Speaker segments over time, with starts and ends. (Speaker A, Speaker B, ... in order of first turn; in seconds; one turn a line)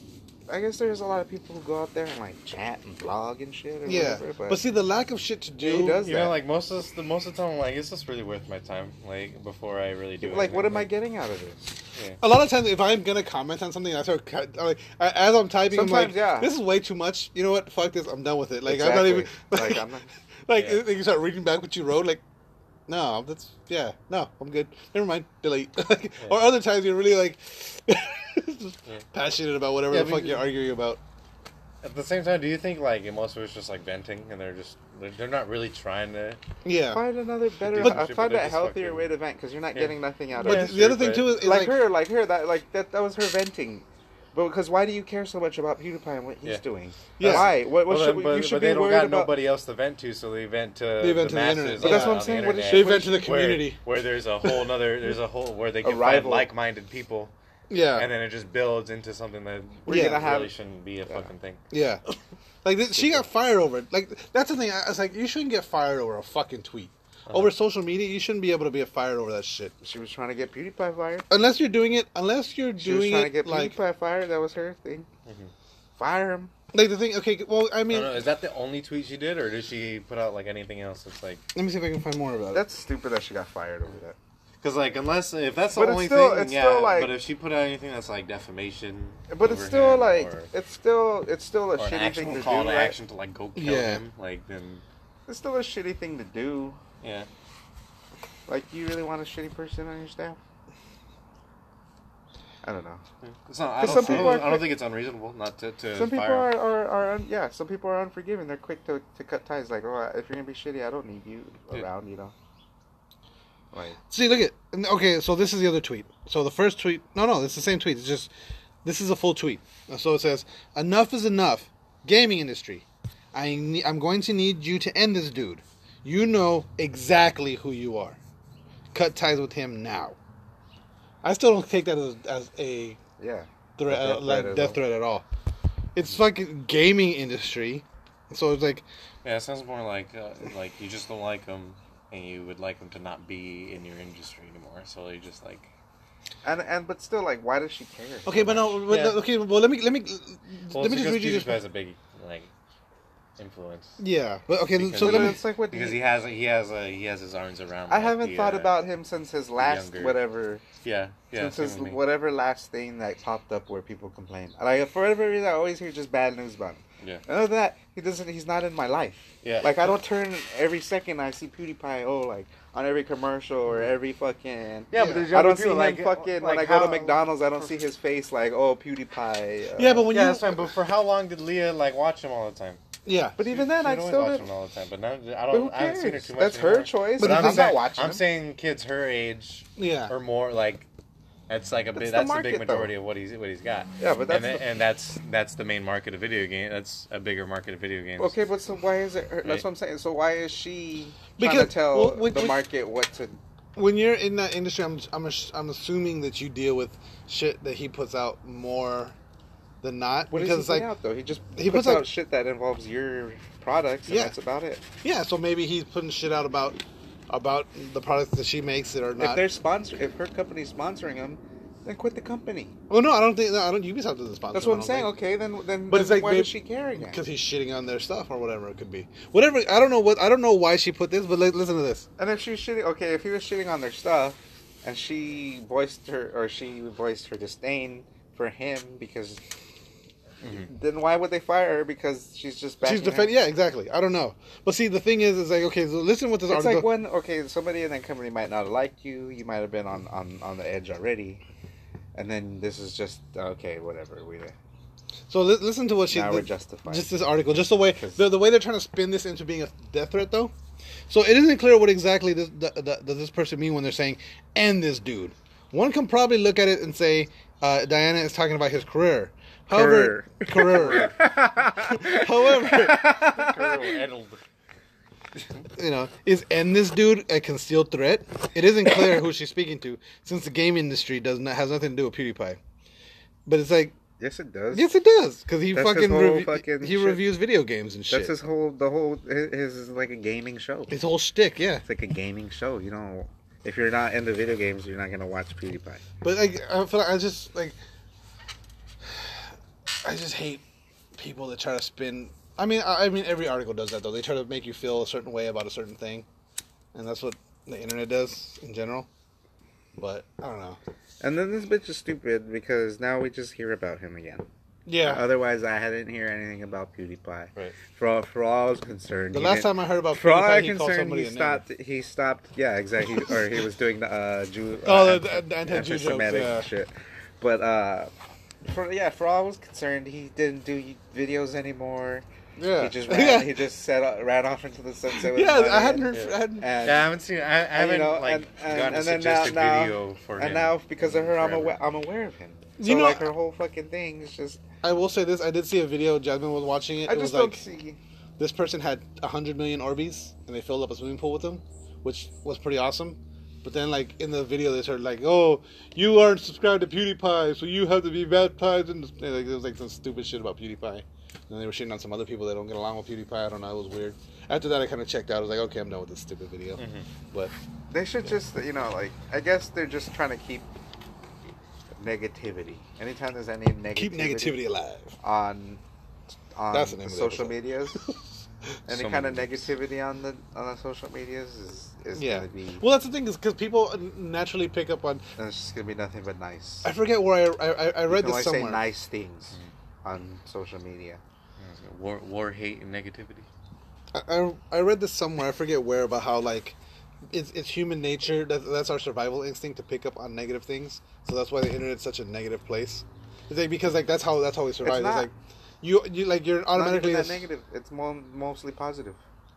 Speaker A: 0.5-4.6
Speaker B: 3.9-6.0
Speaker A: 5.6-6.4
Speaker C: 5.9-10.9
Speaker A: 10.2-11.7
Speaker C: 11.9-12.2
Speaker B: 12.2-19.9
Speaker A: 15.7-16.5
Speaker A: 18.6-20.1
Speaker B: 20.5-22.2
Speaker C: 20.6-20.8
Speaker B: 22.9-31.0
Speaker C: 29.9-30.5
Speaker C: 31.8-36.4
Speaker B: 36.6-37.0
Speaker A: 36.9-49.3
Speaker C: 37.6-39.1
Speaker B: 37.8-38.0
Speaker C: 39.7-41.5
Speaker B: 40.4-41.8
Speaker C: 47.1-57.3
Speaker B: 47.2-47.5
Speaker B: 51.0-53.8
Speaker A: 51.8-53.3
Speaker A: 55.8-56.5
Speaker B: 57.7-58.1
Speaker C: 57.9-61.6
Speaker A: 59.9-60.5
Speaker B: 59.9-60.3
Speaker B: 61.7-62.0
Speaker B: 62.6-69.7
Speaker C: 67.3-67.5
Speaker A: 69.8-71.3
Speaker B: 71.3-73.8
Speaker A: 72.8-75.1
Speaker C: 75.2-75.5
Speaker A: 76.0-76.5
Speaker B: 76.7-78.2
Speaker C: 77.9-81.4
Speaker B: 81.5-82.6
Speaker A: 82.5-84.2
Speaker C: 84.6-90.5
Speaker A: 85.7-87.2
Speaker A: 89.3-93.0
Speaker C: 91.8-94.8
Speaker B: 93.5-94.0
Speaker A: 95.3-96.8
Speaker C: 97.0-97.3
Speaker A: 98.5-100.4
Speaker A: 102.6-103.0
Speaker C: 103.2-106.5
Speaker A: 103.8-104.7
Speaker B: 103.9-104.4
Speaker A: 105.9-112.3
Speaker A: 113.7-114.0
Speaker B: 114.1-118.3
Speaker B: 118.8-128.2
Speaker B: 128.9-130.2
Speaker B: 131.2-133.0
Speaker A: 133.2-134.8
Speaker B: 133.8-135.2
Speaker B: 135.9-138.8
Speaker C: 139.2-145.7
Speaker A: 146.4-148.8
Speaker B: 148.2-151.6
Speaker C: 148.9-149.2
Speaker C: 150.7-152.5
Speaker C: 153.4-154.0
Speaker B: 154.0-155.4
Speaker C: 154.8-158.8
Speaker A: 155.0-156.0
Speaker A: 157.9-160.6
Speaker C: 159.6-160.2
Speaker C: 160.8-162.0
Speaker A: 161.3-180.1
Speaker C: 169.4-169.9
Speaker C: 174.9-177.7
Speaker B: 175.0-175.3
Speaker B: 179.8-180.7
Speaker C: 180.1-182.8
Speaker B: 183.0-183.4
Speaker A: 183.4-184.5
Speaker C: 183.4-190.9
Speaker A: 185.5-188.2
Speaker B: 187.2-187.8
Speaker B: 189.8-190.1
Speaker C: 191.5-198.3
Speaker A: 191.9-192.9
Speaker A: 194.0-194.6
Speaker A: 198.2-203.4
Speaker B: 201.4-202.6
Speaker B: 203.8-209.2
Speaker B: 209.8-210.9
Speaker A: 210.3-214.8
Speaker B: 211.5-212.1
Speaker B: 214.1-214.3
Speaker B: 215.0-216.8
Speaker B: 217.3-219.4
Speaker A: 219.2-222.7
Speaker B: 222.9-225.1
Speaker A: 224.5-227.2
Speaker B: 225.9-232.1
Speaker A: 232.2-239.4
Speaker C: 240.4-240.7
Speaker A: 240.6-243.3
Speaker B: 242.8-246.9
Speaker A: 246.5-251.4
Speaker A: 252.1-254.5
Speaker B: 255.3-260.5
Speaker A: 256.1-257.1
Speaker A: 257.9-258.3
Speaker B: 261.1-273.1
Speaker A: 269.7-274.0
Speaker C: 270.7-271.2
Speaker C: 272.9-274.4
Speaker B: 275.8-282.6
Speaker B: 283.4-284.0
Speaker A: 284.2-284.9
Speaker B: 284.7-288.3
Speaker A: 285.7-287.2
Speaker A: 288.1-291.0
Speaker B: 290.9-291.8
Speaker A: 291.8-296.0
Speaker B: 296.2-297.8
Speaker B: 299.1-299.4
Speaker B: 300.0-300.6
Speaker B: 301.1-306.2
Speaker B: 306.9-309.1
Speaker B: 309.9-310.8
Speaker A: 311.2-314.5
Speaker B: 314.9-315.2
Speaker A: 315.0-332.2
Speaker B: 319.3-321.6
Speaker B: 324.8-326.7
Speaker B: 332.6-333.6
Speaker A: 332.8-337.1
Speaker B: 335.1-336.8
Speaker C: 336.1-341.8
Speaker A: 337.7-344.6
Speaker B: 342.8-343.3
Speaker B: 344.8-347.6
Speaker A: 347.1-348.0
Speaker B: 348.4-367.5
Speaker C: 366.8-367.1
Speaker A: 367.9-370.7
Speaker A: 371.9-374.6
Speaker B: 373.9-375.2
Speaker A: 375.2-375.8
Speaker A: 376.5-378.0
Speaker B: 376.7-378.1
Speaker A: 378.9-382.8
Speaker C: 378.9-379.7
Speaker B: 382.1-385.2
Speaker A: 385.4-386.9
Speaker B: 386.8-388.8
Speaker A: 388.1-391.2
Speaker C: 391.6-393.5
Speaker B: 394.1-396.8
Speaker B: 397.3-407.4
Speaker A: 404.8-405.3
Speaker A: 406.7-409.2